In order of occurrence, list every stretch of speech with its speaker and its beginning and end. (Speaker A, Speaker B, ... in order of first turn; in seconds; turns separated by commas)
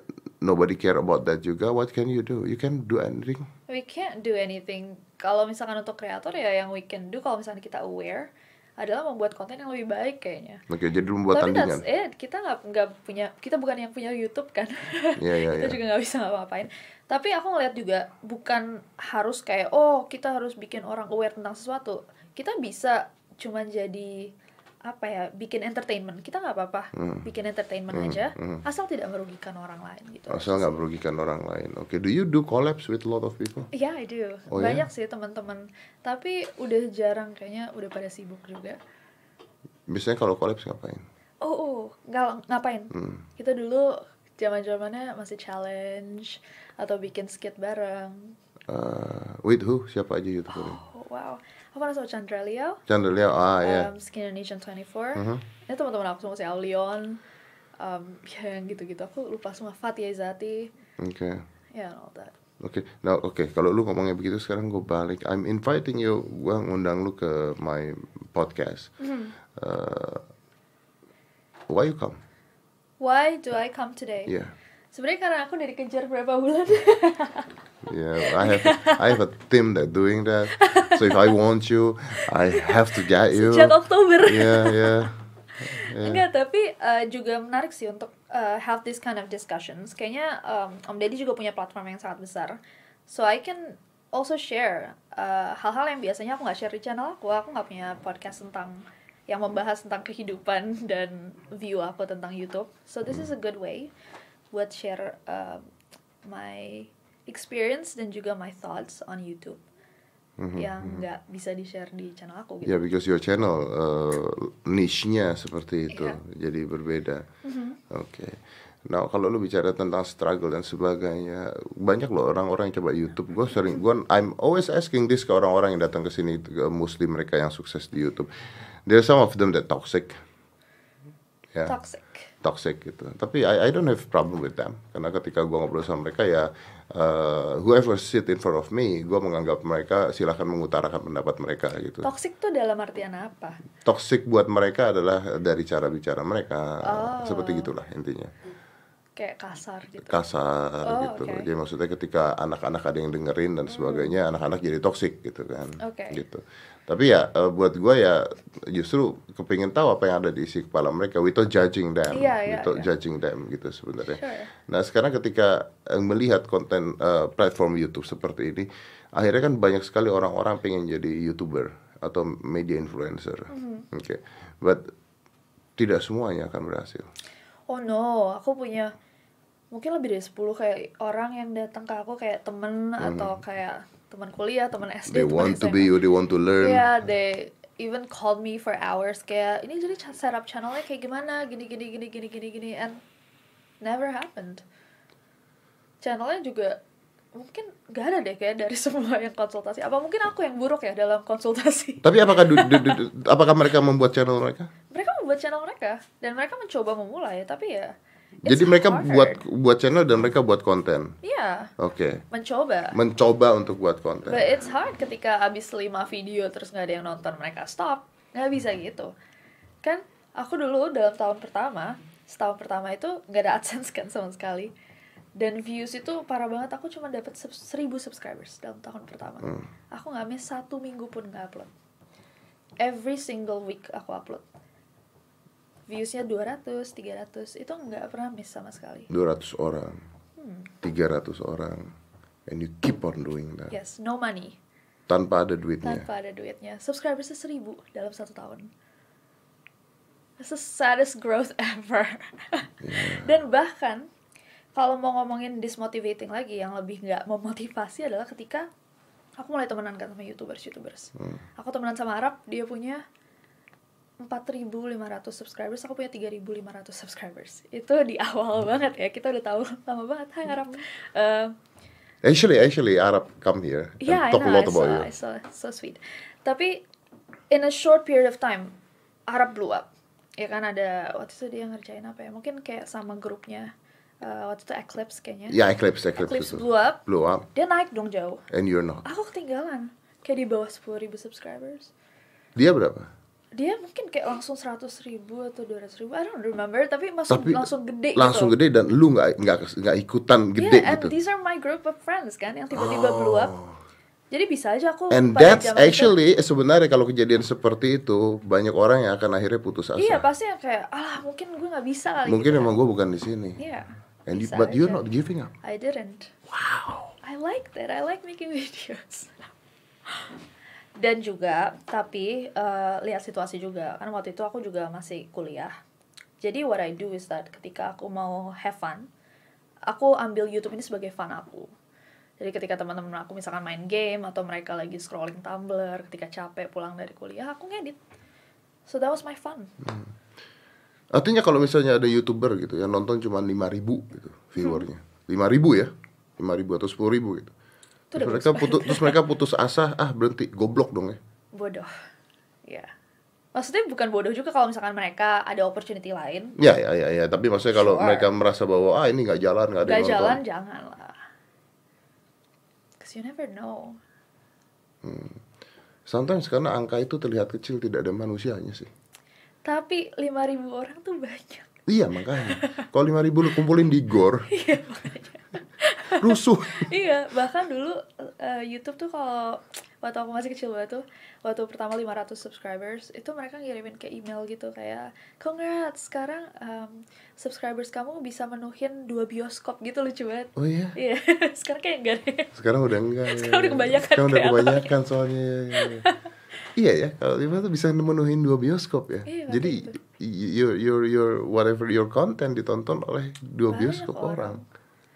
Speaker A: 0.4-3.5, Speaker B: 3.7-10.6, Speaker A: 10.7-11.8, Speaker B: 11.3-24.3, Speaker A: 15.2-15.8, Speaker B: 24.8-30.8, Speaker A: 26.9-27.2, Speaker A: 27.9-28.6, Speaker A: 30.3-33.7, Speaker B: 33.7-38.8, Speaker A: 34.5-34.8, Speaker A: 39.9-41.0, Speaker B: 41.4-48.4, Speaker A: 42.9-43.2, Speaker A: 48.7-50.8, Speaker B: 50.5-52.8, Speaker A: 52.9-53.9, Speaker B: 53.6-57.2, Speaker A: 55.1-55.4, Speaker B: 57.8-60.7, Speaker A: 61.0-61.4, Speaker B: 61.7-62.3, Speaker A: 62.6-68.9, Speaker B: 69.0-69.3, Speaker A: 69.5-70.2, Speaker A: 71.7-72.2, Speaker B: 73.0-74.3, Speaker A: 74.3-74.5, Speaker B: 74.9-77.5, Speaker A: 77.8-86.2, Speaker B: 78.2-79.2, Speaker B: 80.5-81.3, Speaker B: 82.5-85.1, Speaker B: 85.7-92.6, Speaker B: 93.1-103.9, Speaker B: 104.5-105.6, Speaker B: 106.2-109.6, Speaker A: 110.4-111.0, Speaker B: 110.5-112.7, Speaker A: 112.6-117.2, Speaker B: 115.9-116.2, Speaker B: 117.4-117.8, Speaker A: 117.9-128.3, Speaker A: 128.8-130.1, Speaker B: 131.7-132.3, Speaker A: 132.4-142.1, Speaker B: 142.0-143.6, Speaker A: 143.8-148.3, Speaker B: 146.8-147.7, Speaker B: 149.2-150.2, Speaker A: 150.0-174.8, Speaker B: 150.8-151.5, Speaker B: 153.7-154.1, Speaker B: 155.8-156.2, Speaker B: 162.1-162.9, Speaker B: 164.1-164.5, Speaker B: 173.5-173.9, Speaker A: 175.8-177.1, Speaker B: 177.7-178.9, Speaker B: 179.7-185.9, Speaker A: 183.0-183.3, Speaker A: 185.1-186.9, Speaker B: 186.6-193.0, Speaker B: 193.8-194.6, Speaker B: 196.0-196.8, Speaker B: 197.3-203.0, Speaker A: 202.0-204.7, Speaker B: 204.9-209.4, Speaker A: 208.4-211.1, Speaker B: 211.2-211.7, Speaker A: 211.8-212.2, Speaker B: 212.3-212.9, Speaker A: 212.9-214.4, Speaker B: 214.2-219.1, Speaker B: 219.8-224.7, Speaker B: 225.4-231.7, Speaker B: 232.8-234.4, Speaker B: 235.9-239.1, Speaker A: 239.1-240.0, Speaker B: 240.4-240.7, Speaker A: 240.8-241.9, Speaker A: 242.5-243.7, Speaker B: 243.7-244.6, Speaker A: 245.1-246.1, Speaker B: 245.8-248.7, Speaker B: 250.4-254.1, Speaker A: 252.8-253.3, Speaker B: 254.7-258.7, Speaker B: 259.4-263.0, Speaker A: 261.2-261.4, Speaker B: 264.2-271.5, Speaker A: 272.2-275.1, Speaker B: 274.0-276.8, Speaker B: 277.5-278.7, Speaker B: 279.3-279.9, Speaker B: 280.4-283.7, Speaker B: 284.2-285.6, Speaker A: 285.5-287.5, Speaker B: 286.1-287.0, Speaker B: 287.5-288.4, Speaker A: 288.5-289.0, Speaker B: 289.0-291.9, Speaker A: 292.6-293.1, Speaker B: 293.5-298.5, Speaker A: 297.3-301.1, Speaker B: 300.6-303.5, Speaker A: 302.7-303.8, Speaker B: 304.3-306.1, Speaker A: 305.1-310.2, Speaker B: 310.0-312.7, Speaker A: 312.2-313.6, Speaker B: 313.6-315.0, Speaker A: 314.3-315.5, Speaker B: 315.6-316.3, Speaker A: 316.5-317.1, Speaker B: 317.2-319.5, Speaker B: 320.1-320.3, Speaker B: 321.0-325.7, Speaker B: 326.4-329.1, Speaker B: 329.9-331.7, Speaker B: 332.4-338.0, Speaker B: 338.9-339.7, Speaker A: 341.1-347.5, Speaker B: 344.6-344.9, Speaker B: 348.1-349.2, Speaker A: 348.1-351.2, Speaker B: 351.5-351.9, Speaker B: 353.5-356.5, Speaker A: 356.6-360.4, Speaker B: 357.7-358.3, Speaker B: 359.8-361.2, Speaker B: 363.0-364.0, Speaker A: 365.0-365.4, Speaker A: 366.1-368.9, Speaker B: 369.6-371.7, Speaker A: 371.9-374.5, Speaker B: 372.4-372.9, Speaker B: 374.5-392.5, Speaker A: 376.2-376.9, Speaker A: 390.6-390.9, Speaker A: 392.5-396.1, Speaker B: 393.3-394.9, Speaker B: 395.8-396.2, Speaker A: 396.8-404.6, Speaker B: 399.2-400.0, Speaker B: 403.7-404.6